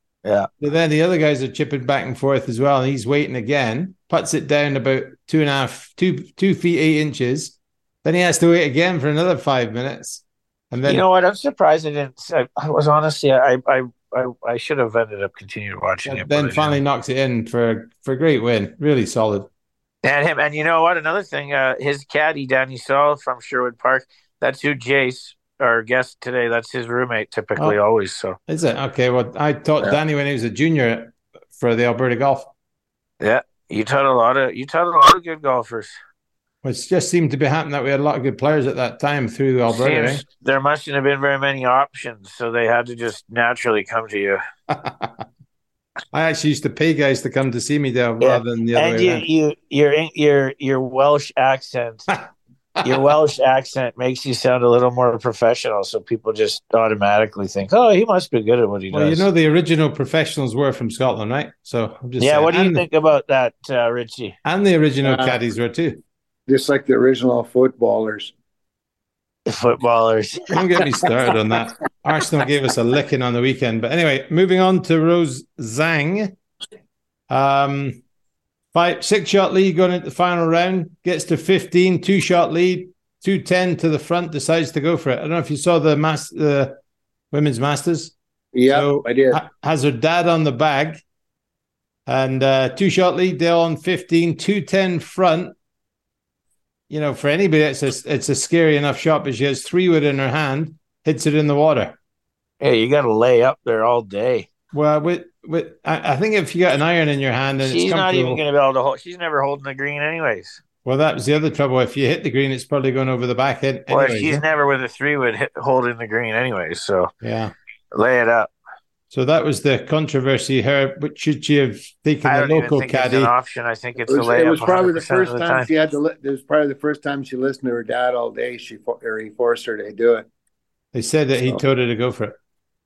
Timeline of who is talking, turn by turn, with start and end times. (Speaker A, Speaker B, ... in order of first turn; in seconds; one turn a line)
Speaker A: 0.2-0.5
Speaker B: 0.6-11.1
Speaker A: 10.8-16.8
Speaker B: 16.1-19.5
Speaker A: 20.0-28.4
Speaker B: 28.5-32.5
Speaker A: 33.2-36.0
Speaker B: 36.6-40.2
Speaker A: 39.7-44.4
Speaker B: 44.7-45.2
Speaker B: 46.1-49.2
Speaker A: 48.2-52.1
Speaker B: 52.8-53.1
Speaker A: 52.8-59.3
Speaker B: 58.9-62.9
Speaker A: 62.2-64.4
Speaker B: 64.5-66.0
Speaker C: 65.0-65.3
Speaker C: 66.5-68.3
Speaker A: 69.5-70.8
Speaker B: 70.5-76.4
Speaker B: 77.3-78.0
Speaker B: 78.7-86.8
Speaker B: 87.3-88.2
Speaker C: 88.5-89.4
Speaker B: 88.7-91.0
Speaker B: 92.1-95.5
Speaker B: 96.9-102.0
Speaker A: 102.6-104.5
Speaker B: 104.7-108.4
Speaker A: 107.6-110.6
Speaker B: 110.8-114.4
Speaker A: 113.9-117.1
Speaker B: 117.2-117.5
Speaker A: 117.9-118.5
Speaker B: 119.1-123.3
Speaker A: 122.2-125.7
Speaker C: 124.1-130.3
Speaker B: 130.9-132.4